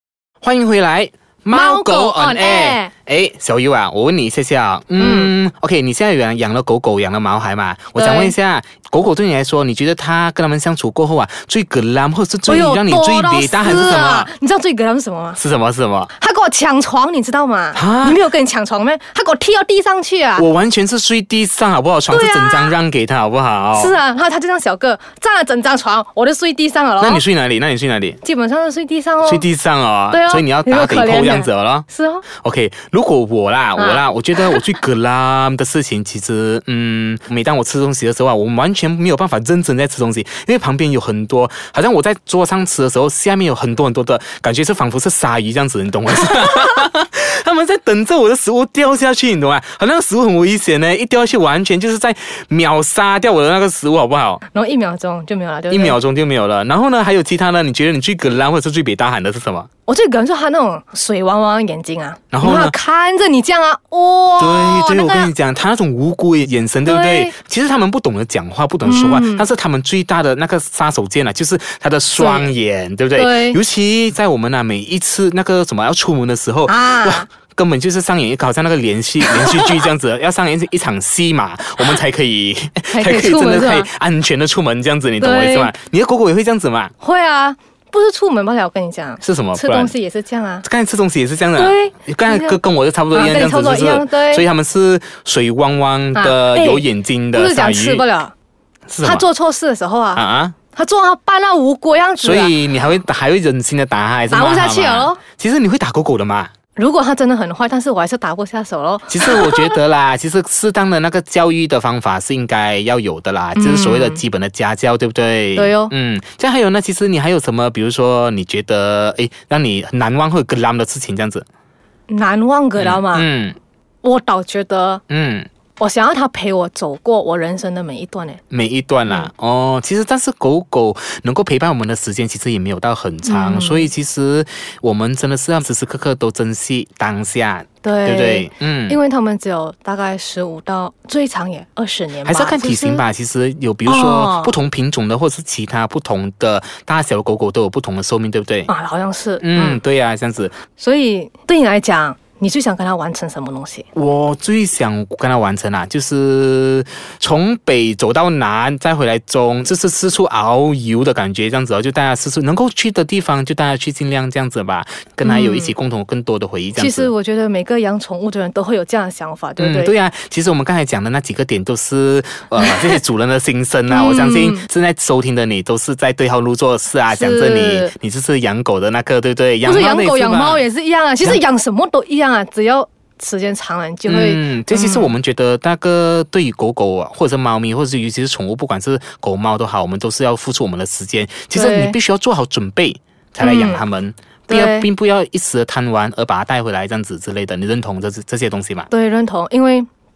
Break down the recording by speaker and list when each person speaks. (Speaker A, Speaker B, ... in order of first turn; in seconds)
Speaker A: 0.4-14.3, 15.4-16.1, 17.7-18.2, 20.4-24.0, 27.0-28.2, 29.2-31.8, 32.4-54.4, 55.7-59.7, 62.3-62.8, 64.4-86.9, 89.2-89.9, 90.6-98.0, 98.9-99.2, 100.1-100.5, 102.2-106.5, 109.1-121.5, 122.8-123.6, 125.1-125.5, 128.5-139.0, 142.2-148.7, 149.4-150.5, 153.9-167.1, 169.6-180.6, 184.1-198.9
Speaker B: 1.5-2.9, 5.0-5.3, 8.0-8.3, 12.5-15.4, 16.1-20.5, 22.1-22.7, 23.7-27.2, 28.2-29.4, 30.1-32.2, 33.8-34.6, 54.5-56.0, 59.9-65.3, 66.8-67.3, 68.8-69.5, 72.2-72.5, 73.1-73.6, 76.7-77.3, 79.2-79.8, 82.9-83.9, 85.2-85.7, 87.0-90.6, 91.5-92.6, 93.1-94.5, 96.1-98.3, 99.0-102.5, 104.3-105.2, 106.8-109.8, 113.5-114.2, 115.5-115.9, 122.1-123.3, 124.0-125.0, 125.8-128.4, 133.2-133.9, 137.8-143.0, 143.8-144.5, 148.7-149.8, 150.8-153.9, 165.2-165.7, 166.8-169.9, 172.6-173.0, 173.9-174.6, 177.1-177.9, 179.6-185.1, 191.5-192.0, 193.4-193.8, 194.5-194.9, 198.9-199.9